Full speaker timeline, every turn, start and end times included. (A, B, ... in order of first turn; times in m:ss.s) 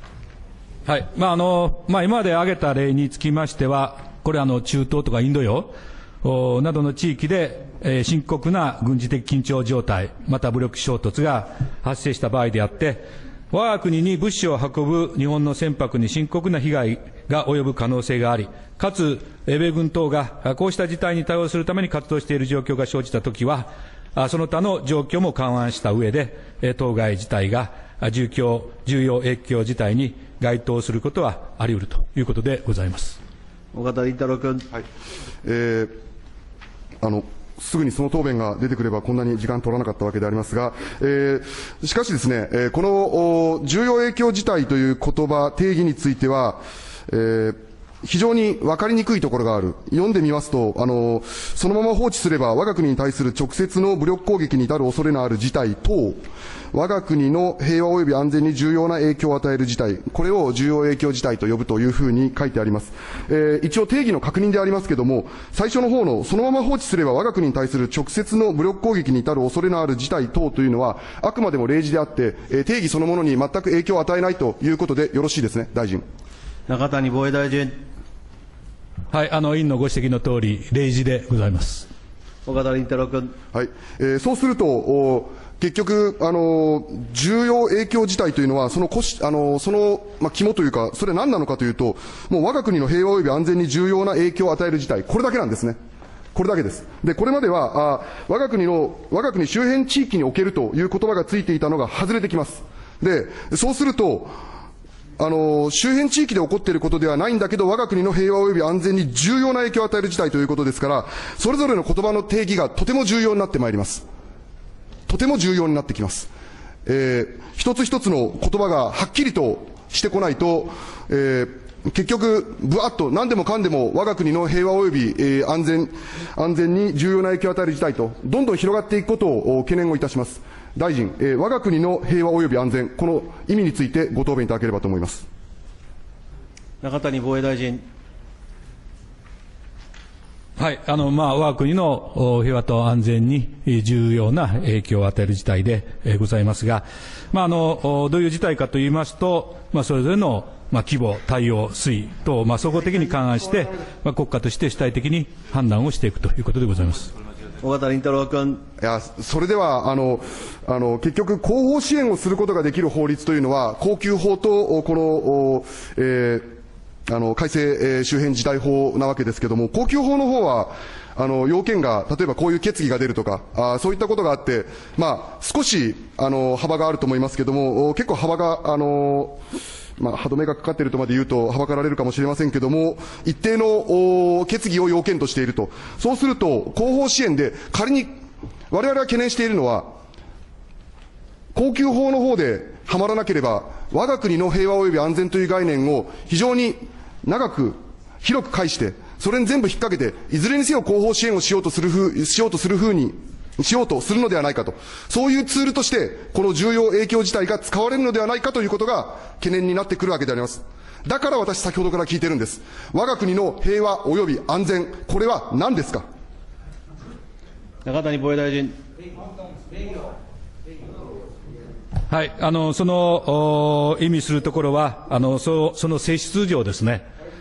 0:00.9-0:33.2 A
0:33.7-0:34.7 B
0:35.4-0:35.9 C
0:37.0-1:16.0 C
1:16.7-1:17.8 B
1:19.1-1:21.9 A
1:22.5-1:23.3 B
1:23.5-1:35.8 C
1:36.3-1:44.3 C
1:45.2-1:54.0 C
1:55.1-1:56.3 C
1:56.9-2:15.2 C
2:16.8-2:17.8 B
2:20.6-2:37.1 A
2:37.6-2:38.6 B
2:38.8-2:46.5 C
2:47.1-2:59.4 C
3:00.0-3:08.1 C
3:08.7-3:09.9 C
3:11.5-3:36.0 C
3:37.8-3:38.8 B
3:42.1-3:47.0 A